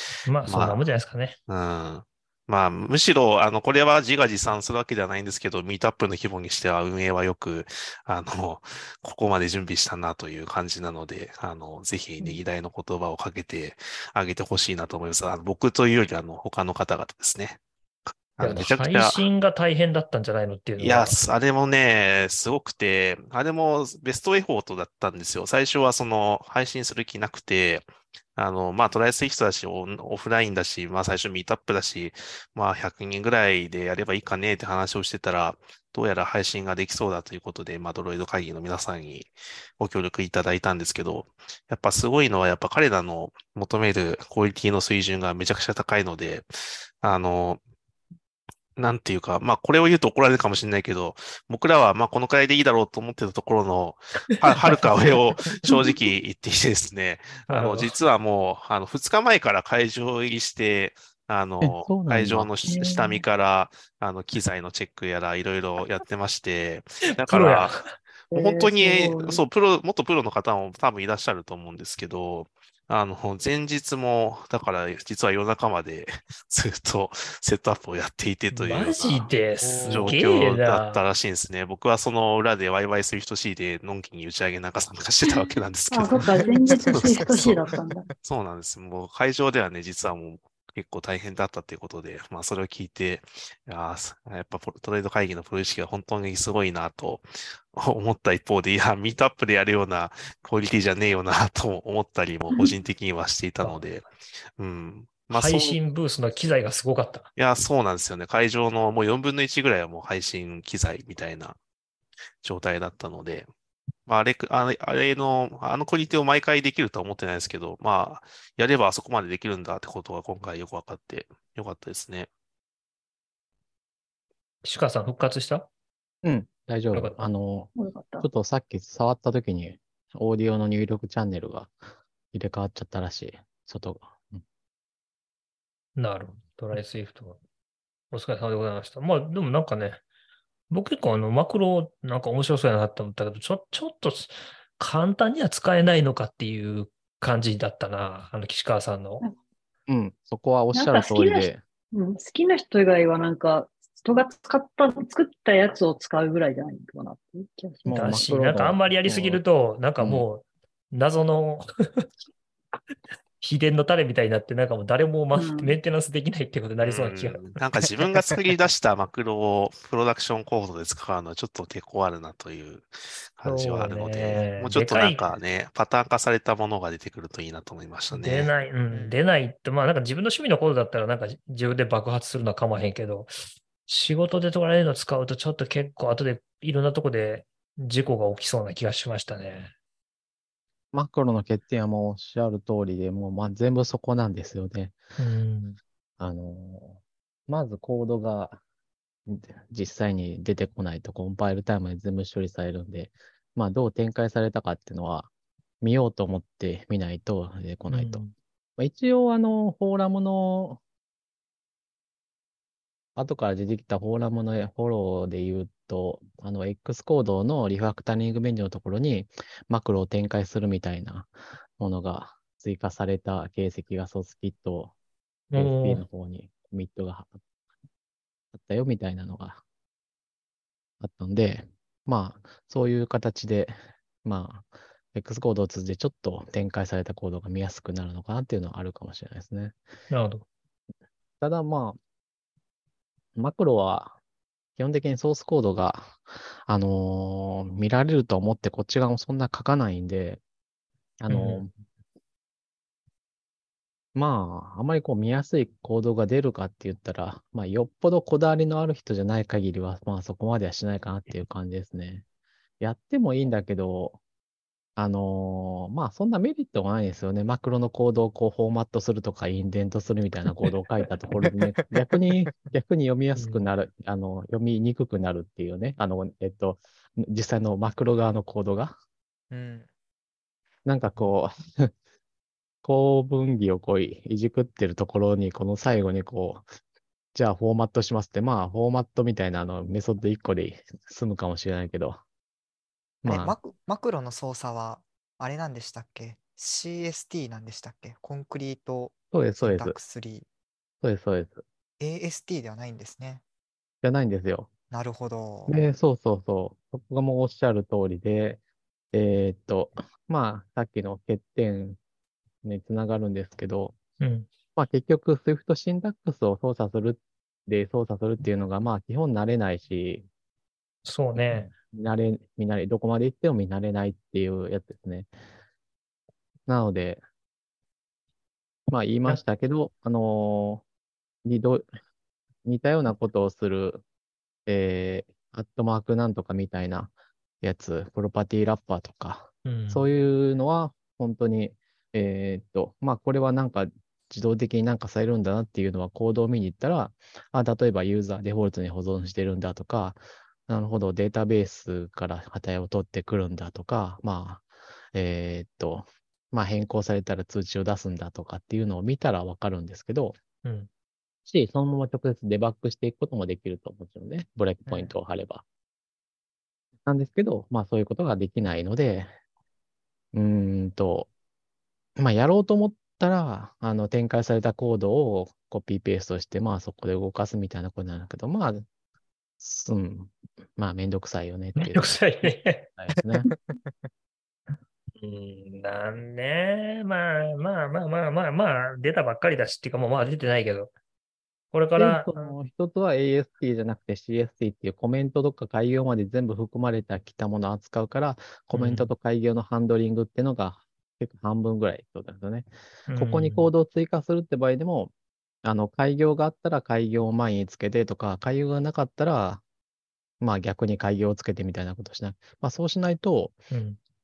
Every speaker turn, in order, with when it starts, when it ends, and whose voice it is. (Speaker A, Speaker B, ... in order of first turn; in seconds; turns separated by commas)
Speaker A: 0.3-1.4, Speaker B: 0.5-0.8, Speaker B: 1.5-17.6, Speaker B: 18.4-19.2, Speaker A: 18.4-21.2, Speaker B: 20.8-46.5, Speaker B: 47.0-47.6, Speaker B: 48.8-67.8, Speaker A: 57.5-58.0, Speaker C: 61.6-62.5, Speaker D: 62.7-63.2, Speaker A: 67.2-67.8, Speaker D: 68.3-69.4, Speaker B: 68.3-79.3, Speaker A: 78.5-81.0, Speaker C: 79.6-80.2, Speaker B: 79.9-104.1, Speaker D: 85.9-88.1, Speaker E: 86.4-87.8, Speaker B: 104.6-105.8, Speaker A: 105.3-107.3, Speaker B: 107.4-111.6, Speaker B: 112.4-113.5, Speaker B: 114.1-122.3, Speaker A: 124.6-125.7, Speaker C: 126.2-131.7, Speaker A: 126.9-127.3, Speaker D: 127.8-128.3, Speaker C: 132.3-134.4, Speaker A: 136.0-137.4, Speaker A: 138.1-140.0, Speaker A: 140.7-149.2, Speaker C: 149.9-151.6, Speaker D: 150.7-158.1, Speaker C: 157.8-159.4, Speaker A: 157.9-162.1, Speaker C: 160.0-160.3, Speaker A: 163.4-167.5, Speaker D: 165.3-165.8, Speaker B: 166.8-178.5, Speaker A: 173.4-175.3, Speaker A: 178.1-183.3, Speaker E: 178.9-179.2, Speaker A: 183.9-189.7, Speaker C: 190.9-195.0, Speaker A: 195.2-195.8, Speaker C: 196.2-198.6, Speaker C: 199.3-205.3, Speaker C: 205.8-208.2, Speaker A: 207.9-208.3, Speaker C: 208.8-210.8, Speaker C: 213.2-224.9, Speaker A: 225.5-226.0, Speaker C: 225.5-227.4, Speaker C: 228.5-229.6, Speaker C: 231.0-239.8, Speaker A: 240.1-240.4, Speaker C: 241.4-242.0, Speaker C: 243.4-244.2, Speaker C: 244.8-250.4, Speaker C: 251.2-251.7, Speaker A: 251.3-251.7, Speaker C: 254.2-262.2, Speaker C: 262.8-264.2, Speaker C: 265.0-279.0, Speaker E: 272.4-272.7, Speaker A: 273.4-273.6, Speaker E: 279.5-279.9, Speaker C: 280.9-281.9, Speaker C: 282.8-286.6, Speaker C: 287.4-292.2, Speaker C: 293.2-293.6, Speaker E: 293.3-300.5, Speaker C: 299.3-300.0, Speaker C: 301.0-301.6, Speaker E: 302.0-303.4, Speaker C: 304.0-304.7, Speaker E: 304.9-305.8, Speaker C: 305.7-308.6, Speaker C: 309.1-312.0, Speaker C: 312.6-314.0, Speaker A: 314.2-314.5, Speaker C: 314.8-320.3, Speaker A: 321.0-321.7, Speaker C: 321.4-325.3, Speaker C: 326.7-327.2, Speaker C: 328.9-330.8, Speaker C: 331.4-331.9, Speaker C: 332.6-334.0, Speaker C: 334.7-360.4, Speaker A: 339.6-340.1, Speaker A: 360.6-360.9, Speaker C: 361.5-365.6, Speaker E: 364.9-365.1, Speaker C: 367.1-369.3, Speaker C: 370.3-371.3, Speaker C: 372.2-378.9, Speaker C: 379.6-382.2, Speaker A: 381.8-382.9, Speaker C: 383.0-383.5, Speaker E: 383.1-384.1, Speaker A: 385.2-390.9, Speaker A: 391.7-392.6, Speaker C: 392.0-405.1, Speaker A: 398.7-399.1, Speaker A: 403.1-403.7, Speaker C: 405.6-409.6, Speaker C: 410.4-413.6, Speaker A: 413.7-414.0